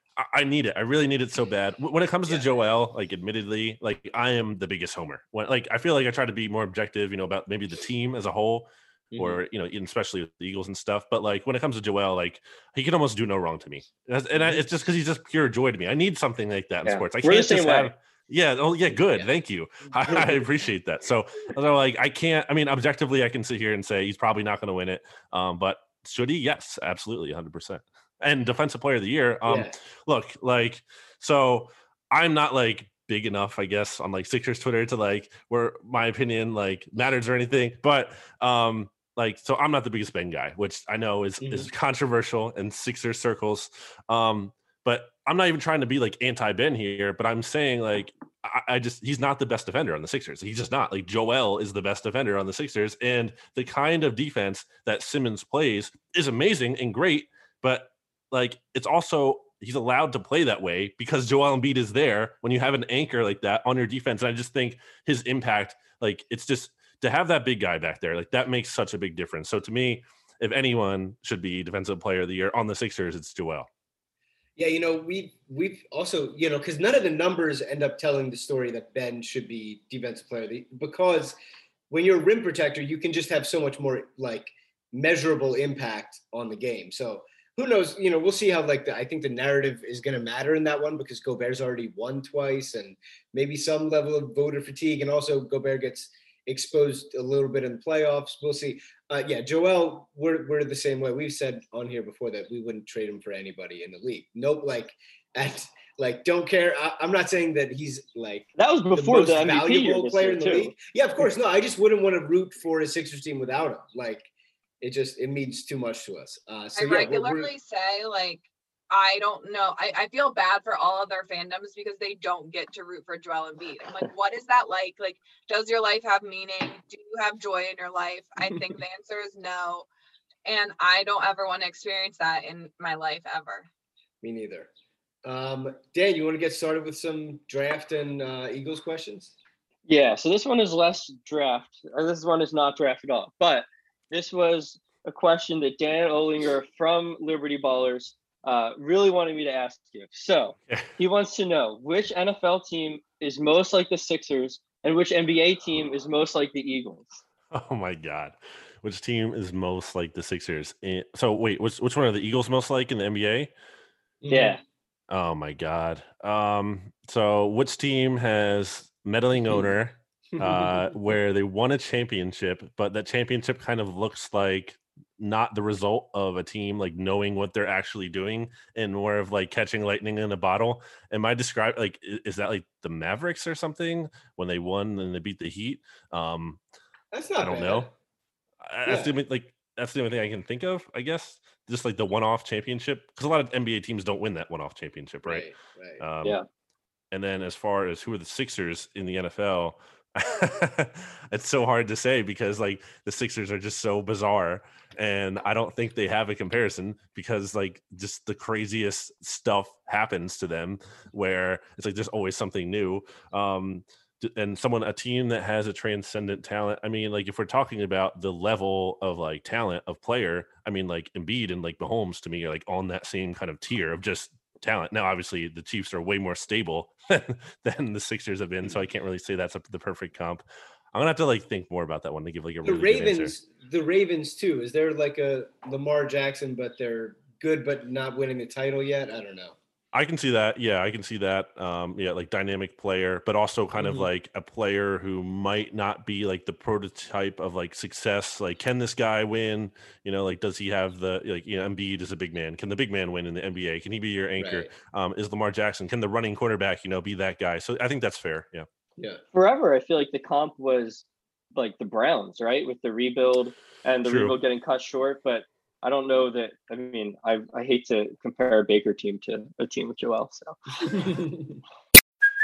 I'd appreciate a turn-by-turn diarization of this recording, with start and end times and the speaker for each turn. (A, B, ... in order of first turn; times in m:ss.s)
0:00.2-1:13.7 A
0:09.1-0:09.4 B
0:14.3-0:14.6 B
0:16.8-0:17.9 C
0:20.1-0:20.4 B
0:29.4-0:29.7 B
0:41.4-0:41.7 B
1:14.6-1:21.4 B
1:21.9-1:54.3 B
1:48.6-1:50.7 C
1:54.8-1:57.5 B
1:56.8-2:09.8 D
2:10.4-2:13.7 D
2:14.2-2:14.7 B
2:15.2-2:19.3 B
2:19.9-2:37.2 C
2:37.5-2:43.5 A
2:44.2-2:44.6 B
2:44.3-2:44.6 C
2:45.1-3:06.6 A
2:50.4-2:50.9 B
3:07.1-3:07.9 B
3:07.4-3:07.9 A
3:08.6-3:15.5 A
3:08.8-3:09.1 B
3:15.2-3:16.0 B
3:16.0-3:16.4 A
3:17.1-3:50.4 A
3:50.9-3:53.3 A
3:52.6-3:59.6 B
3:59.9-4:18.7 A
4:03.8-4:04.1 B
4:14.4-4:14.7 B
4:19.3-4:21.0 C
4:21.6-4:30.6 C
4:24.0-4:24.4 A